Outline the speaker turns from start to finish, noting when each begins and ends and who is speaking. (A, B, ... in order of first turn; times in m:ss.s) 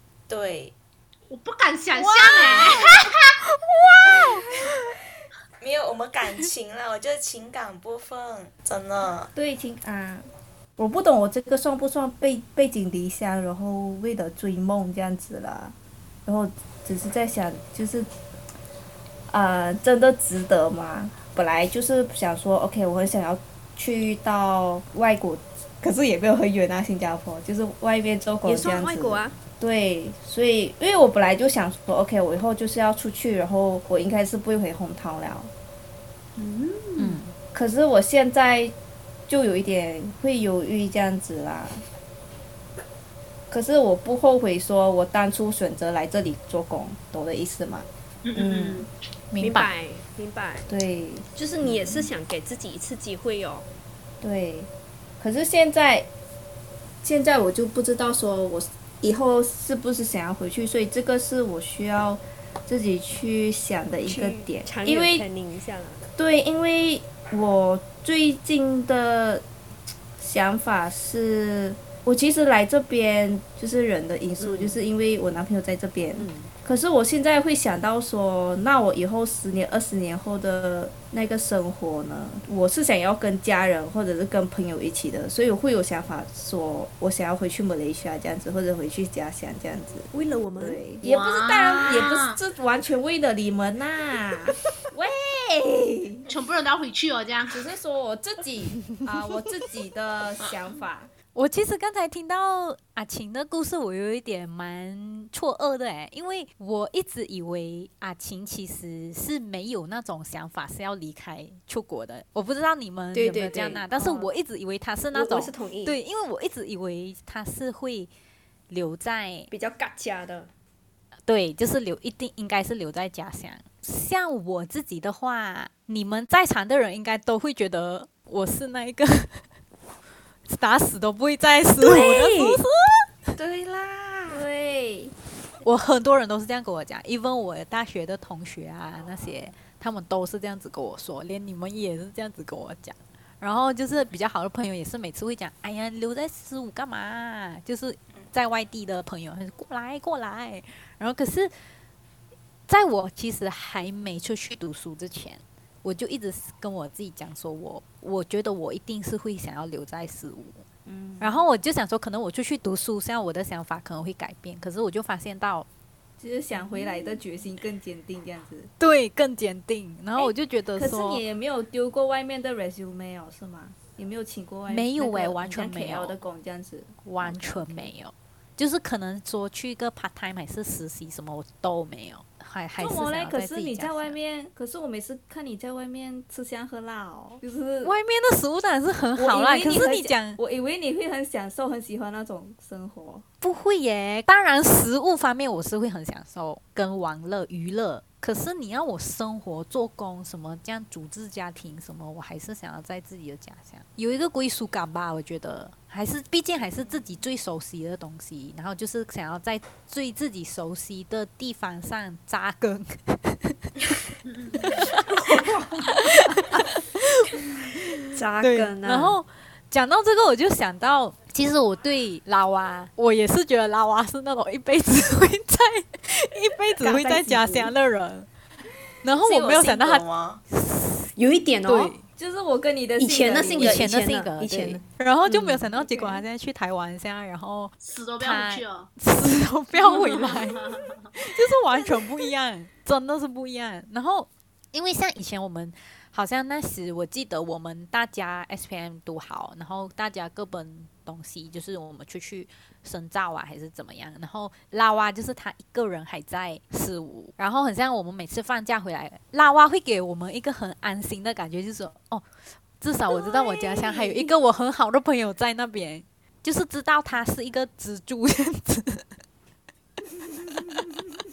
0:00.3-0:00.8 A
0:01.3-0:03.1 B
0:02.0-0:02.9 C
0:03.6-0:04.4 C
0:05.6-0:09.3 A
0:09.4-0:10.2 D
0:10.8-0:15.8 D
0:16.3-0:18.1 D
0:19.3-0:35.5 D
0:28.4-0:29.4 E
0:37.0-0:37.3 C
0:37.5-0:38.7 D
0:39.3-0:41.8 D
0:43.5-0:48.9 D
0:48.3-0:48.8 B
0:49.3-0:49.7 C
0:49.4-0:50.7 E
0:50.7-0:51.3 D
0:51.4-0:53.7 E
0:54.2-0:54.7 D
0:55.2-0:56.1 D
0:57.0-1:05.3 D
1:04.1-1:06.0 E
1:06.1-1:09.4 D
1:10.2-1:36.3 D
1:14.4-1:14.8 E
1:16.2-1:16.5 E
1:30.1-1:30.9 E
1:31.0-1:32.4 B
1:36.3-1:37.6 B
1:37.5-1:41.1 D
1:41.4-1:58.1 C
1:53.1-1:53.9 E
1:54.0-1:54.3 D
1:55.1-1:56.0 E
1:58.7-1:59.5 C
1:59.5-2:00.5 E
2:01.3-2:09.4 C
2:10.5-2:13.1 C
2:11.8-2:12.6 E
2:13.4-2:14.4 A
2:14.3-2:15.1 D
2:15.6-2:31.5 C
2:32.7-2:40.6 C
2:40.9-2:41.4 D
2:41.2-2:45.7 C
2:46.2-2:48.7 D
2:46.6-2:47.0 C
2:48.8-2:51.2 C
2:50.2-2:57.9 D
2:54.7-2:56.2 C
2:57.0-3:04.2 C
3:02.8-3:07.9 D
3:07.8-3:10.4 C
3:09.2-3:13.2 D
3:13.4-3:33.7 C
3:26.6-3:27.1 A
3:34.3-3:34.6 B
3:34.6-3:48.3 C
3:35.6-3:35.9 D
3:38.1-3:39.2 E
3:46.8-3:47.7 D
3:49.0-3:51.1 C
3:49.1-3:50.4 A
3:51.2-3:52.0 E
3:51.6-3:52.0 C
3:52.2-3:53.9 D
3:53.0-3:55.6 E
3:53.4-4:22.2 C
3:55.7-3:56.2 D
3:57.8-3:58.9 B
3:59.7-4:01.0 B
4:22.8-4:29.1 C
4:23.9-4:24.1 D